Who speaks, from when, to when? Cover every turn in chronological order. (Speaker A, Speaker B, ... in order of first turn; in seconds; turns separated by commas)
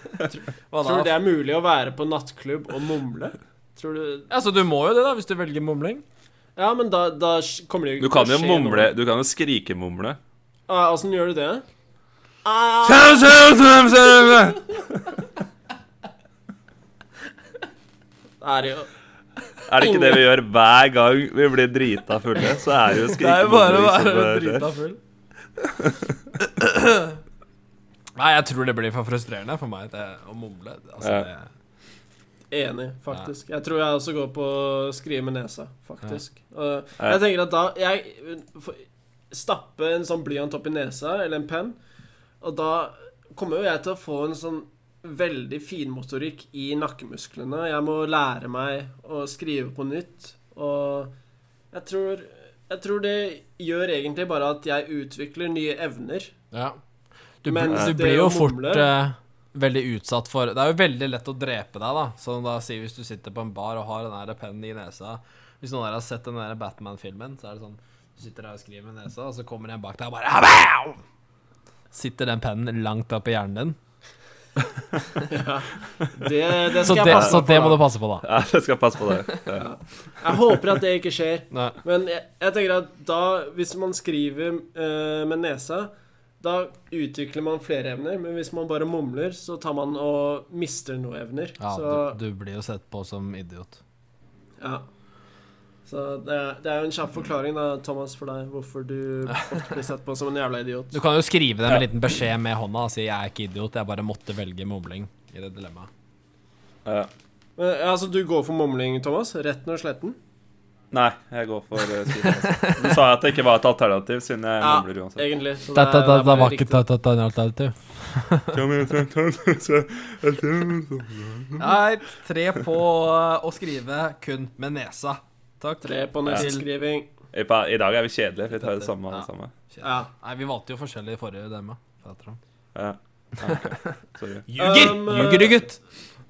Speaker A: 0.7-1.1, Speaker B: 0.8-4.3, Speaker A: 4.3-6.0, Speaker B: 6.6-8.9, Speaker C: 8.0-10.2, Speaker B: 10.7-11.6, Speaker B: 12.4-13.3, Speaker C: 12.8-15.2, Speaker B: 18.4-18.9, Speaker C: 19.7-24.7, Speaker B: 19.8-20.2, Speaker A: 23.0-25.0, Speaker C: 25.8-26.1, Speaker A: 26.4-27.2, Speaker A: 28.2-31.5, Speaker C: 31.0-31.3, Speaker B: 32.5-41.7, Speaker B: 42.4-51.1, Speaker B: 51.7-56.3, Speaker A: 56.5-56.8, Speaker A: 57.4-71.0, Speaker B: 57.5-58.9, Speaker C: 57.7-58.0, Speaker A: 71.9-73.8, Speaker B: 75.3-77.8, Speaker A: 76.8-78.3, Speaker C: 76.9-77.5, Speaker C: 78.2-80.6, Speaker B: 79.6-92.2, Speaker A: 81.5-81.8, Speaker A: 91.6-93.8, Speaker B: 94.6-94.8, Speaker B: 95.9-101.0, Speaker A: 100.9-105.9, Speaker C: 106.8-107.1, Speaker B: 107.6-110.2, Speaker C: 110.9-115.3, Speaker A: 112.2-112.9, Speaker B: 114.6-116.8, Speaker A: 115.7-118.6, Speaker C: 118.5-121.7, Speaker A: 121.6-126.7, Speaker B: 125.8-127.1, Speaker C: 127.3-129.5, Speaker A: 128.6-132.4, Speaker B: 129.8-130.1, Speaker C: 132.7-134.5, Speaker A: 133.4-133.9, Speaker A: 134.5-135.8, Speaker B: 134.6-135.7